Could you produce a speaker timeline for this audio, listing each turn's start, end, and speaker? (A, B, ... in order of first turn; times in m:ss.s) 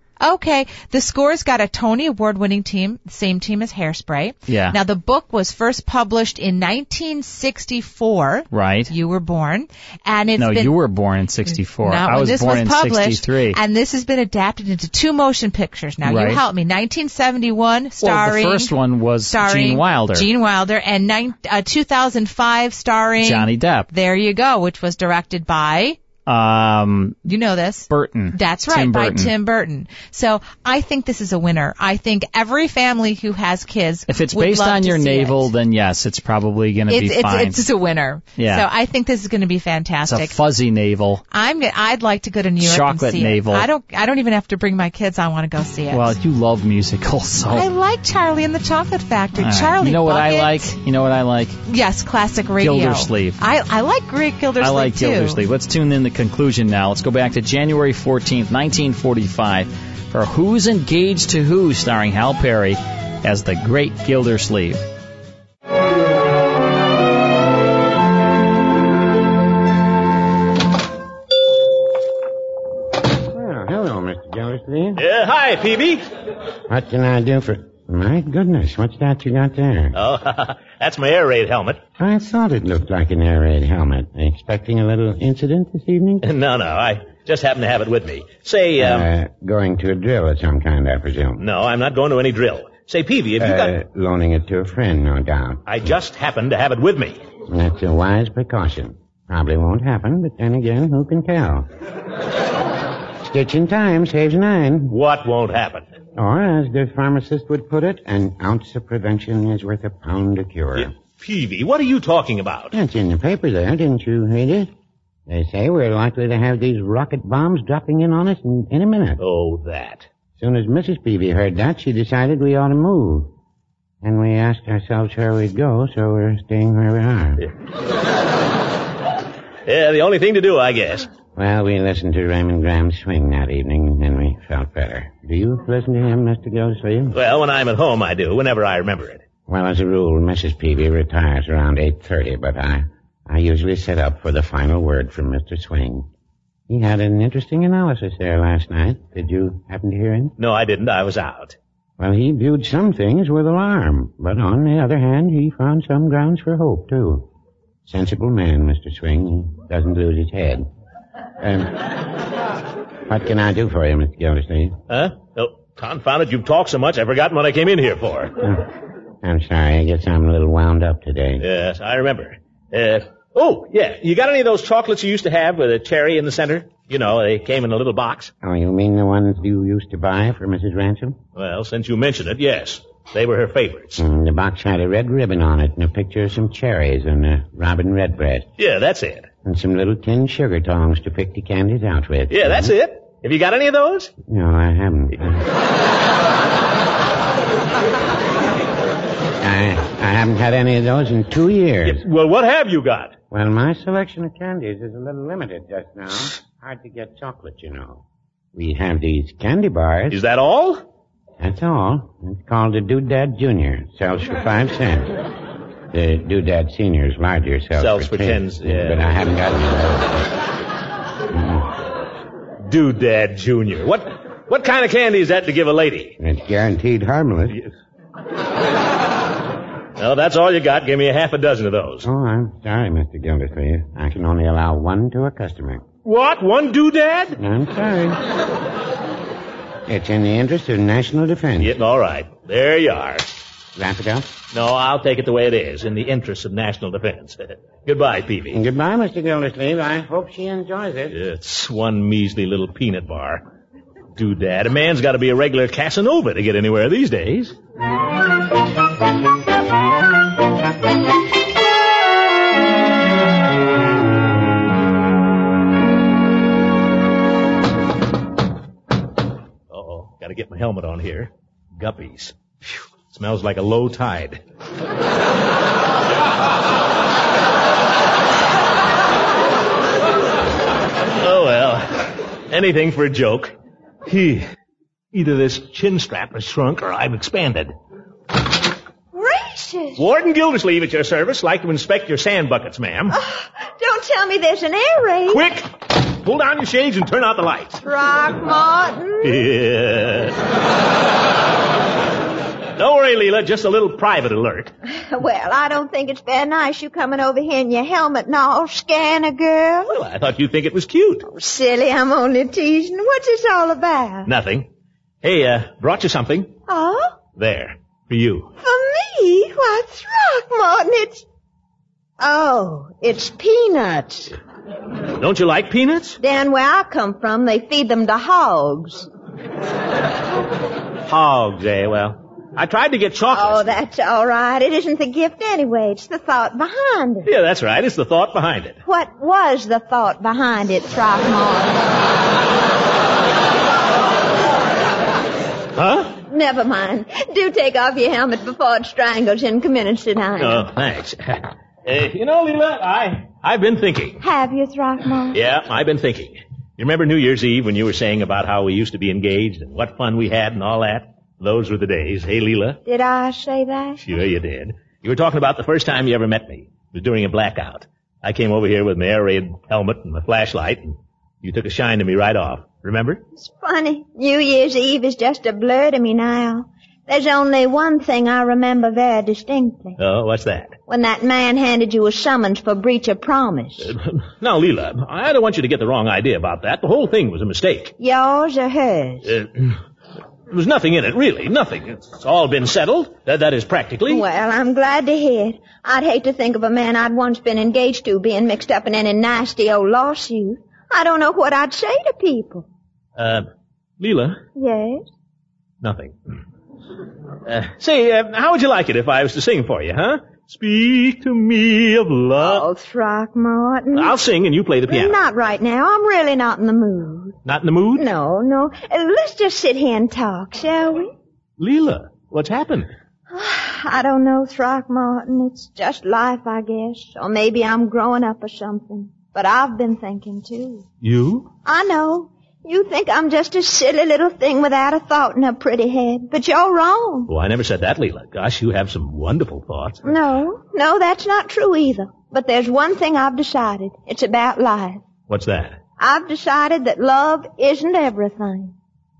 0:00.2-0:10.8 A
0:04.5-0:04.8 B
0:08.5-0:08.9 B
0:10.4-0:13.6 B
0:11.5-0:18.7 A
0:16.0-0:16.4 B
0:18.0-0:20.3 B
0:19.3-0:26.0 A
0:23.2-0:23.9 B
0:26.2-0:27.2 B
0:27.2-0:35.5 A
0:27.9-0:29.3 B
0:34.1-0:37.6 B
0:36.9-0:40.4 A
0:38.4-0:38.7 B
0:40.0-0:41.2 B
0:41.3-0:46.2 A
0:42.6-0:43.7 B
0:45.9-0:47.7 B
0:47.5-0:50.7 A
0:49.4-0:51.6 B
0:51.7-0:55.4 A
0:52.6-0:53.4 B
0:54.6-1:04.8 B
1:13.3-1:15.0 C
1:15.0-1:16.0 D
1:16.7-1:20.0 C
1:19.9-1:21.8 D
1:22.0-1:26.3 C
1:26.2-1:29.1 D
1:28.8-1:31.4 C
1:31.4-1:33.7 D
1:33.4-1:35.6 C
1:35.6-1:37.2 D
1:37.5-1:41.7 C
1:43.2-1:45.0 C
1:44.9-1:45.8 D
1:46.2-1:50.9 C
1:50.8-1:52.7 D
1:52.7-1:54.7 C
1:55.3-1:59.2 C
1:59.2-2:00.1 D
2:00.4-2:03.3 C
2:04.0-2:07.4 C
2:09.6-2:11.1 D
2:11.3-2:17.2 C
2:17.1-2:19.2 D
2:19.5-2:26.1 C
2:26.7-2:30.3 C
2:30.4-2:31.6 D
2:32.0-2:37.3 C
2:37.8-2:40.7 C
2:41.4-2:41.8 C
2:43.1-2:44.8 C
2:44.9-2:48.4 D
2:49.2-2:51.4 C
2:51.4-2:58.3 D
2:58.4-3:01.2 C
3:01.4-3:04.0 D
3:04.0-3:08.5 C
3:08.6-3:09.3 D
3:09.4-3:12.7 C
3:12.3-3:14.1 D
3:14.2-3:15.4 C
3:19.4-3:22.0 C
3:21.8-3:23.1 D
3:23.3-3:30.2 C
3:30.1-3:30.8 D
3:31.4-3:35.1 C
3:35.9-3:40.3 C
3:37.8-3:39.2 D
3:41.3-3:41.7 C
3:42.6-3:46.2 D
3:46.2-3:47.6 C
3:50.0-3:52.1 D
3:52.0-3:55.8 C
3:56.0-3:57.4 D
3:57.4-3:58.2 C
3:59.9-4:01.7 C
4:01.6-4:03.2 D
4:03.8-4:04.3 C
4:04.5-4:08.6 D
4:08.5-4:11.2 C
4:11.1-4:13.4 D
4:14.2-4:17.5 D
4:29.7-4:34.4 D
4:41.2-4:43.5 D
4:44.0-4:44.5 D
4:45.1-4:47.7 D
4:49.1-4:50.0 E
4:50.0-4:53.1 D
4:53.1-4:55.4 E
4:55.3-4:57.8 D
4:57.8-4:59.4 E
4:59.2-5:00.4 D
5:02.8-5:04.7 D
5:04.9-5:09.9 E
5:09.9-5:11.2 D
5:11.2-5:14.3 E
5:14.2-5:14.7 D
5:15.2-5:16.5 D
5:16.7-5:17.1 E
5:17.4-5:18.5 D
5:18.6-5:21.2 E
5:22.2-5:24.3 E
5:25.1-5:26.2 D
5:26.2-5:29.1 E
5:31.0-5:33.6 D
5:33.3-5:37.3 E
5:37.2-5:38.8 D
5:38.8-5:41.8 E
5:45.8-5:46.1 D
5:46.2-5:50.7 E
5:50.4-5:54.2 D
5:54.2-5:55.4 E
5:55.3-6:02.8 D
6:02.8-6:04.0 E
6:04.0-6:13.2 D
6:13.4-6:20.0 E
6:20.0-6:20.8 D
6:20.9-6:23.9 E
6:23.8-6:27.9 D
6:28.0-6:29.3 E
6:29.2-6:29.7 D
6:30.5-6:34.2 D
6:34.0-6:42.7 E
6:43.2-6:43.5 D
6:44.0-6:44.4 D
6:44.6-6:45.0 E
6:45.8-6:46.2 D
6:47.4-6:52.6 D
6:52.4-6:54.2 E
6:53.9-6:55.2 D
6:54.9-6:57.4 E
6:57.4-6:58.1 D
6:58.0-7:01.1 E
7:01.6-7:02.9 D
7:03.3-7:10.8 E
7:11.0-7:11.5 D
7:11.6-7:17.3 E
7:17.3-7:20.1 D
7:20.0-7:25.0 E
7:25.3-7:25.8 D
7:26.0-7:28.7 E